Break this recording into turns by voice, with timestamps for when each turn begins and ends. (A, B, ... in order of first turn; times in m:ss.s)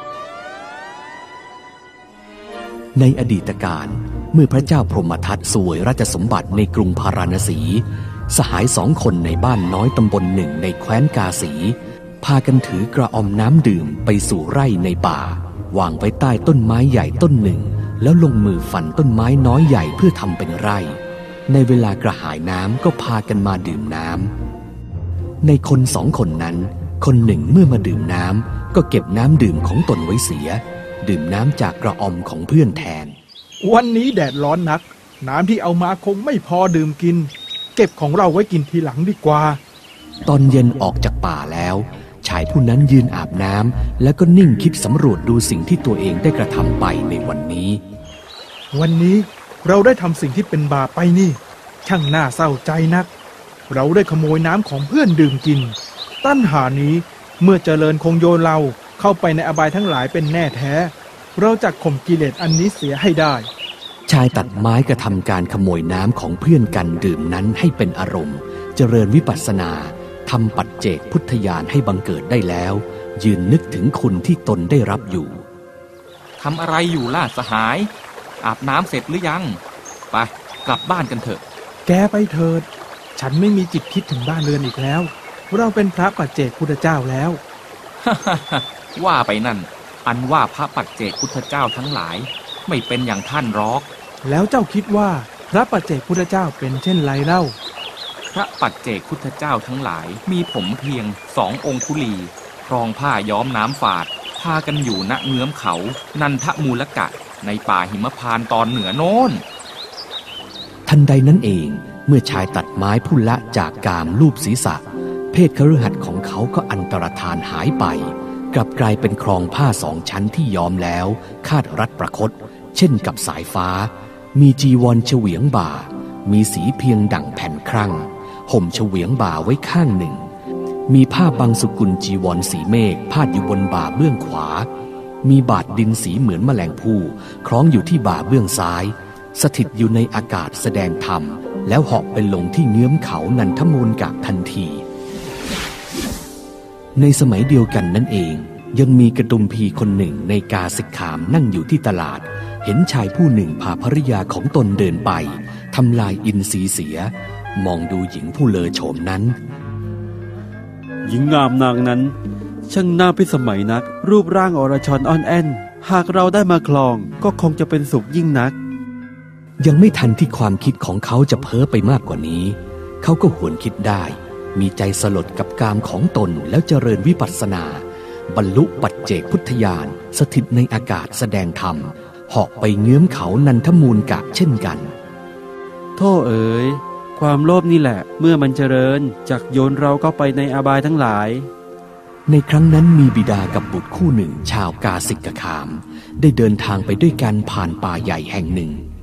0:02.9-0:24.3 A
0:25.4-0:33.2 A
0:33.6-0:39.6 B
0:40.2-0:47.8 A
0:48.7-0:53.1 B
0:53.7-1:03.5 B
1:04.1-1:15.4 A
1:16.4-1:19.6 C
1:20.1-1:21.4 C
1:21.9-1:27.4 B
1:28.0-1:33.9 C
1:34.2-1:37.5 B
1:38.3-1:49.4 C
1:50.9-2:10.2 A
2:10.9-2:14.7 A
2:15.2-2:24.8 A
2:27.0-2:39.4 A
2:41.0-2:42.1 D
2:42.7-2:48.6 D
2:49.6-3:04.9 A
3:06.0-3:11.5 D
3:12.3-3:18.8 A